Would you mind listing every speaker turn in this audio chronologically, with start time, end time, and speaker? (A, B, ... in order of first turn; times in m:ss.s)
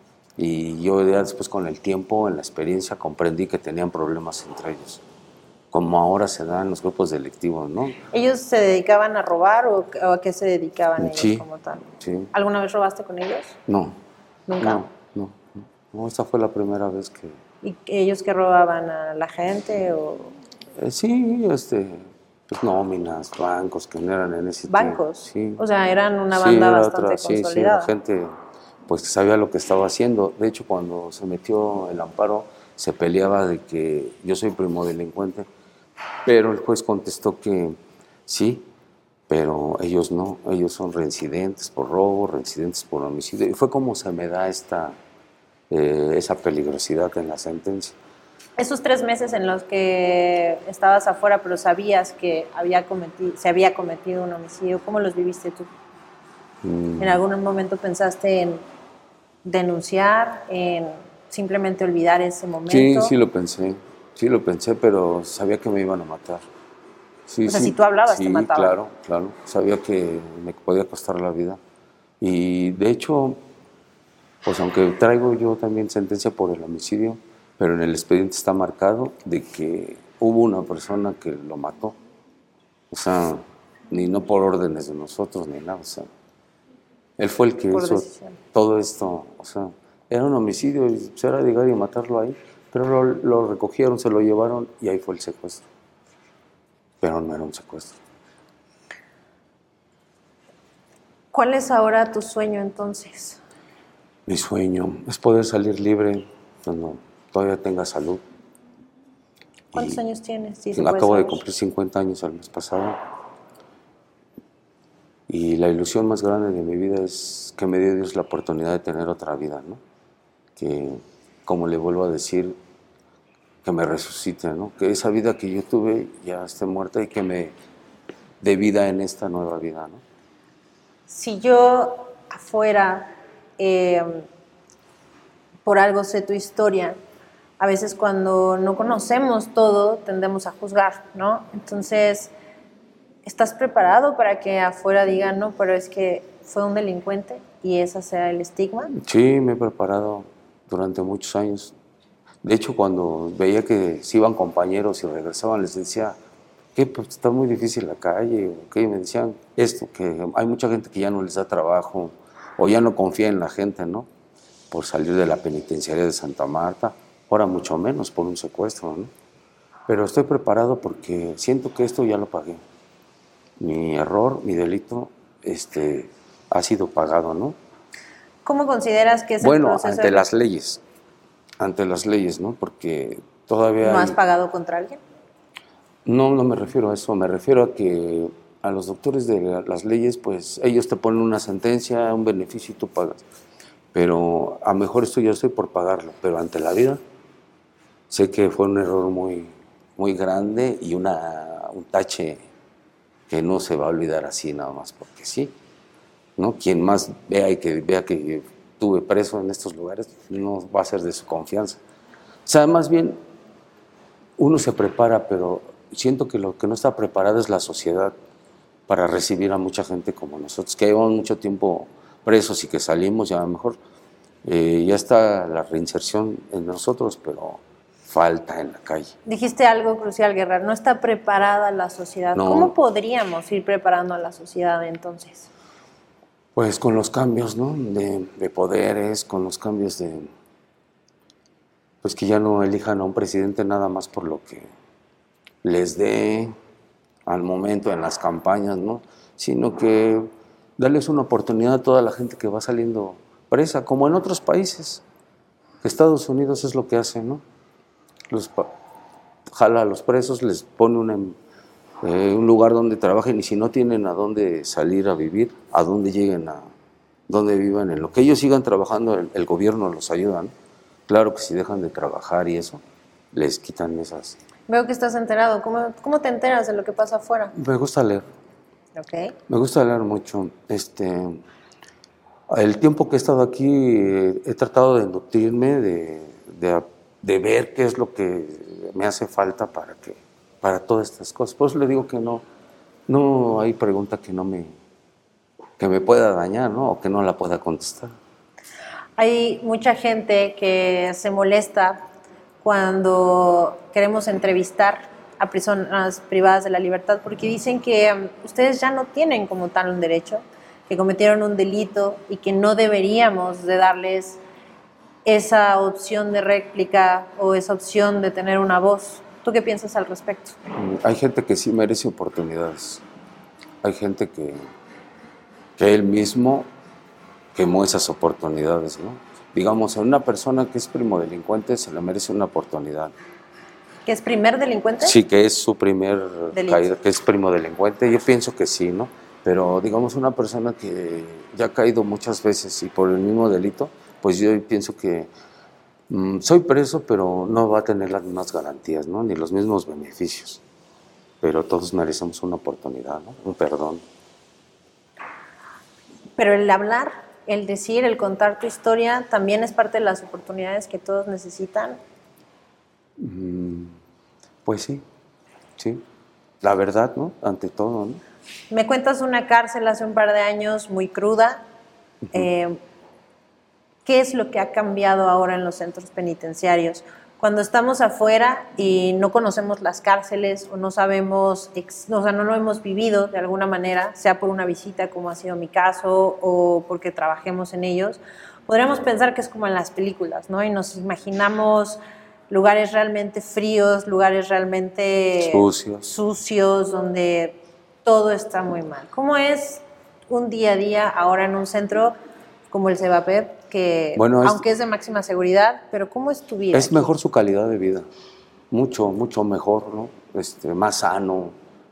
0:00.4-0:05.0 A
0:05.7-0:08.0 A
0:08.1-0:13.6 B
0:11.0-0:11.4 A
0:12.0-0:12.3 A
0:13.7-0:14.0 A
0:14.5-0:14.9 B
0:14.6-0:17.4 A
0:17.6-0:20.3 B
0:20.8-0:25.6 A
0:24.7-0:27.9 B
0:26.3-0:28.3 A
0:28.9-0:35.5 A
0:36.2-0:38.7 A
0:39.3-0:45.0 A
0:45.7-0:48.0 A
0:48.6-0:55.7 B
0:56.6-0:57.2 A
0:57.0-0:58.6 B
0:59.4-1:03.1 B
1:02.7-1:06.4 A
1:07.3-1:11.6 A
1:07.4-1:08.8 B
1:12.2-1:13.4 A
1:14.4-1:22.0 A
1:22.9-1:26.1 A
1:27.2-1:35.6 A
1:27.7-1:28.4 B
1:37.0-1:38.0 A
1:41.3-1:43.4 B
1:44.3-1:48.2 A
1:49.7-1:50.0 A
1:49.7-1:51.4 B
1:50.7-1:53.0 A
1:55.3-1:59.8 A
2:00.6-2:02.6 A
2:03.6-2:07.5 A
2:08.4-2:10.0 A
2:11.1-2:14.2 B
2:15.6-2:17.0 B
2:17.6-2:22.3 B
2:23.2-2:28.9 B
2:28.9-2:31.7 A
2:32.4-2:36.2 A
2:36.7-2:44.1 A
2:44.7-2:49.1 A
2:49.9-2:52.6 A
2:53.6-2:57.6 A
2:58.4-3:00.2 B
2:59.4-3:00.8 A
3:01.6-3:04.2 A
3:03.8-3:05.0 B
3:06.0-3:13.2 A
3:13.9-3:17.0 A
3:18.1-3:22.4 A
3:23.3-3:25.5 A
3:26.4-3:31.8 A
3:32.4-3:33.2 A
3:34.4-3:38.1 A
3:38.9-3:43.8 A
3:44.4-3:49.1 A
3:49.2-3:55.5 B
3:52.3-3:52.7 A
3:56.5-4:00.3 A
4:02.0-4:04.7 A
4:05.6-4:06.5 A
4:07.2-4:15.0 A
4:15.8-4:17.4 A
4:18.3-4:18.7 A
4:19.4-4:21.4 A
4:22.0-4:26.7 A
4:27.3-4:30.5 A
4:31.1-4:32.8 A
4:33.3-4:34.4 A
4:34.7-4:37.5 B
4:37.5-4:38.2 A
4:39.0-4:39.3 B
4:39.5-4:41.4 A
4:42.5-4:52.4 A
4:53.1-4:54.8 A
4:55.8-4:58.1 A
4:59.2-5:02.0 B
5:02.6-5:14.4 B
5:15.2-5:20.6 B
5:20.7-5:23.0 A
5:23.8-5:24.6 A
5:25.8-5:26.7 A
5:27.5-5:33.1 A
5:34.0-5:35.2 B
5:35.0-5:45.3 A
5:36.5-5:36.9 B
5:46.1-5:50.6 A
5:51.4-5:54.0 A
5:56.4-6:02.0 B
6:03.2-6:04.0 A
6:04.6-6:05.0 A
6:05.8-6:06.0 A
6:06.6-6:08.2 A
6:08.7-6:11.6 B
6:12.3-6:12.8 B
6:14.0-6:42.1 B
6:35.4-6:36.1 A
6:42.7-6:47.1 B
6:44.2-6:44.6 A
6:46.7-6:48.0 A
6:48.7-6:51.5 A